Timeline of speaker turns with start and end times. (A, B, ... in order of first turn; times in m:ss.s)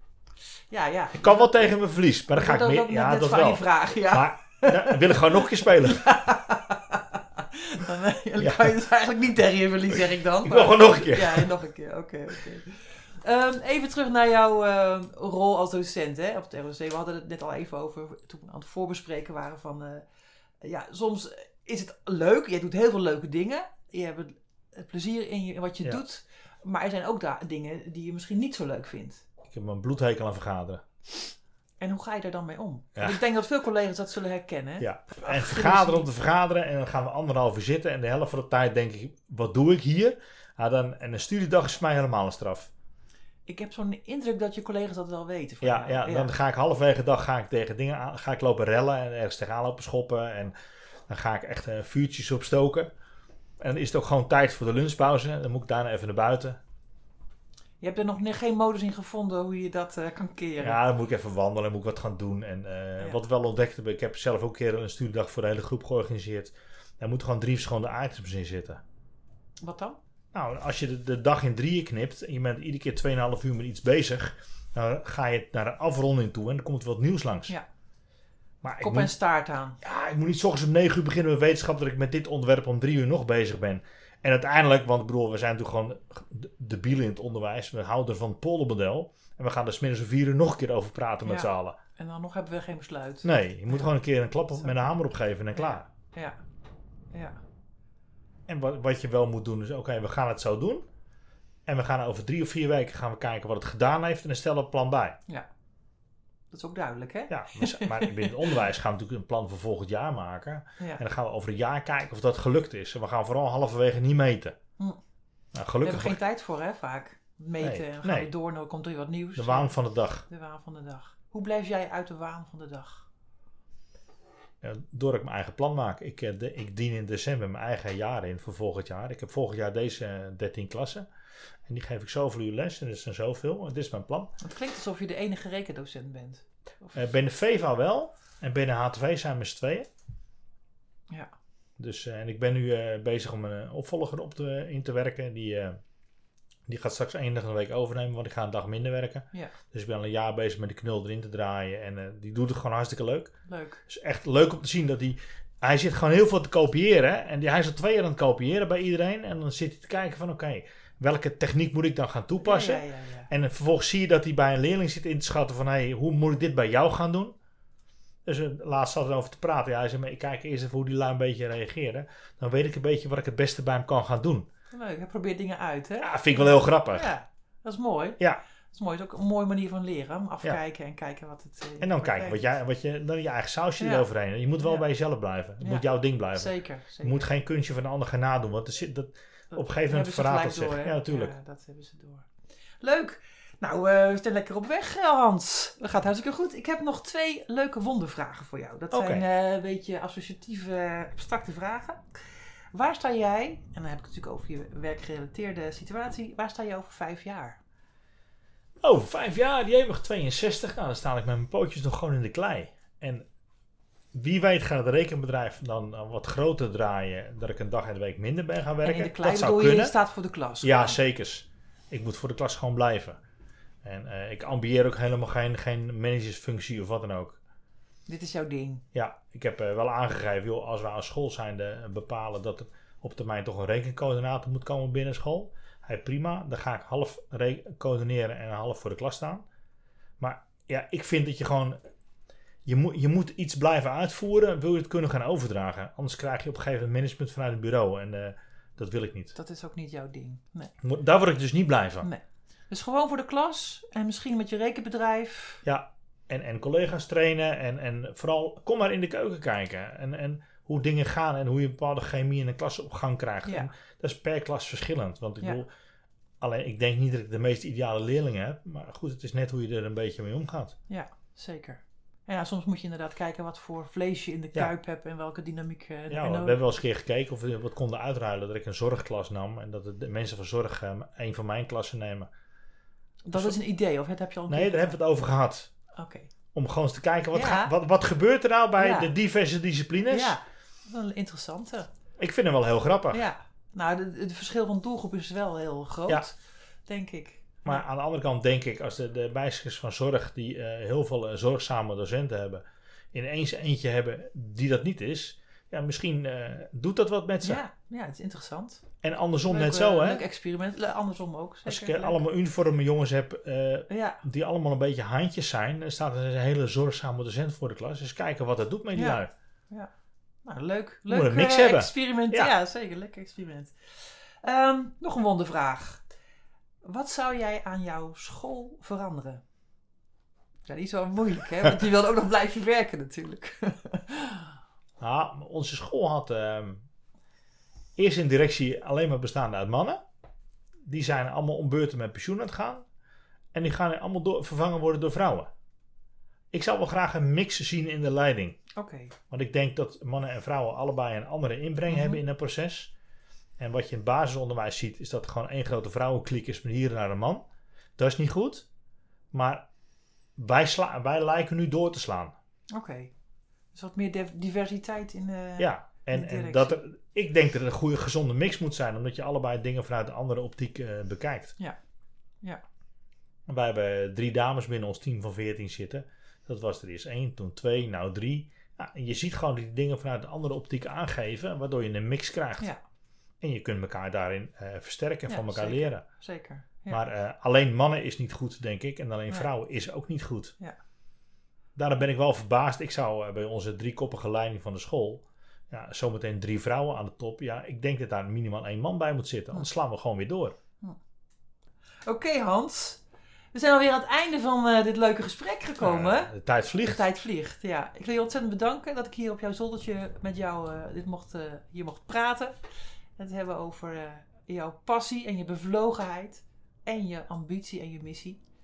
0:00.7-0:01.7 A
0:01.2-0:06.1 B
0:02.3-0:20.0 A
0:08.4-0:08.8 B
0:10.0-0:11.5 B
0:20.6-0:29.3 A
0:29.5-0:30.8 B
0:31.8-0:36.1 A
0:33.0-0:33.2 B
0:34.8-0:42.7 B
0:43.5-0:46.3 A
0:45.6-0:50.5 B
0:51.1-0:52.9 B
0:53.6-0:56.6 B
0:57.8-1:00.8 A
1:00.6-1:08.8 B
1:09.6-1:10.0 A
1:10.3-1:17.5 B
1:18.6-1:19.1 B
1:18.8-1:19.8 A
1:19.8-1:31.8 B
1:31.2-1:33.9 A
1:33.2-1:35.9 B
1:34.6-1:35.0 A
1:35.5-1:36.4 A
1:38.5-1:40.9 B
1:41.7-1:45.2 B
1:46.5-1:48.6 A
1:47.3-1:54.6 B
1:55.5-1:56.2 B
1:55.8-1:59.8 A
1:57.6-1:58.3 B
1:59.4-2:00.2 B
2:00.3-2:03.1 A
2:04.6-2:11.1 B
2:11.7-2:14.3 B
2:14.4-2:17.0 A
2:17.0-2:19.9 B
2:21.8-2:25.8 B
2:26.7-2:33.3 B
2:33.5-2:33.8 A
2:33.9-2:47.4 B
2:42.4-2:43.3 A
2:48.3-2:54.5 B
2:54.7-2:58.2 A
2:56.0-2:57.1 B
2:58.7-3:02.4 A
3:01.8-3:11.3 B
3:03.8-3:04.1 A
3:05.6-3:07.3 A
3:09.5-3:12.3 A
3:12.8-3:22.0 A
3:18.9-3:19.2 B
3:22.7-3:27.6 A
3:28.8-3:33.3 B
3:34.1-3:39.9 B
3:38.8-3:41.0 A
3:40.6-3:43.2 B
3:43.8-3:47.4 B
3:48.1-3:48.8 A
3:48.9-3:59.4 B
4:00.2-4:01.8 B
4:02.7-4:09.4 B
4:09.4-4:10.7 A
4:10.8-4:12.1 B
4:12.0-4:15.6 A
4:15.6-4:25.7 B
4:26.4-4:30.8 B
4:30.9-4:36.6 A
4:36.1-4:42.3 B
4:43.2-4:45.0 A
4:44.5-4:45.7 B
4:46.0-4:46.3 A
4:46.5-4:50.4 B
4:47.3-4:47.7 A
4:48.8-4:49.1 A
4:50.1-4:51.9 A
4:52.2-4:53.3 B
4:53.1-4:56.4 A
4:56.9-4:57.8 A
4:57.6-5:07.6 B
5:07.4-5:08.8 A
5:09.0-5:10.2 B
5:09.5-5:12.2 A
5:11.7-5:19.3 B
5:13.9-5:14.2 A
5:19.0-5:19.9 A
5:20.4-5:26.0 A
5:21.1-5:22.5 B
5:26.8-5:29.4 A
5:30.7-5:34.5 A
5:35.0-5:36.8 B
5:38.0-5:40.0 B
5:40.9-5:42.8 B
5:43.5-5:45.5 B
5:46.5-5:48.6 B
5:48.8-5:49.2 A
5:49.3-5:52.9 B
5:51.9-5:52.2 A
5:53.6-5:57.4 B
5:58.0-5:58.7 B
5:59.3-5:59.6 B
6:00.4-6:02.4 B
6:02.7-6:03.1 A
6:03.7-6:06.8 A
6:05.6-6:11.5 B
6:13.5-6:22.7 B
6:23.4-6:26.0 B
6:25.3-6:27.0 A
6:26.9-6:30.6 B
6:31.8-6:40.6 B
6:42.1-6:43.0 A
6:43.5-6:46.3 A
6:45.8-6:47.0 B
6:46.8-6:52.6 A
6:53.2-6:58.4 A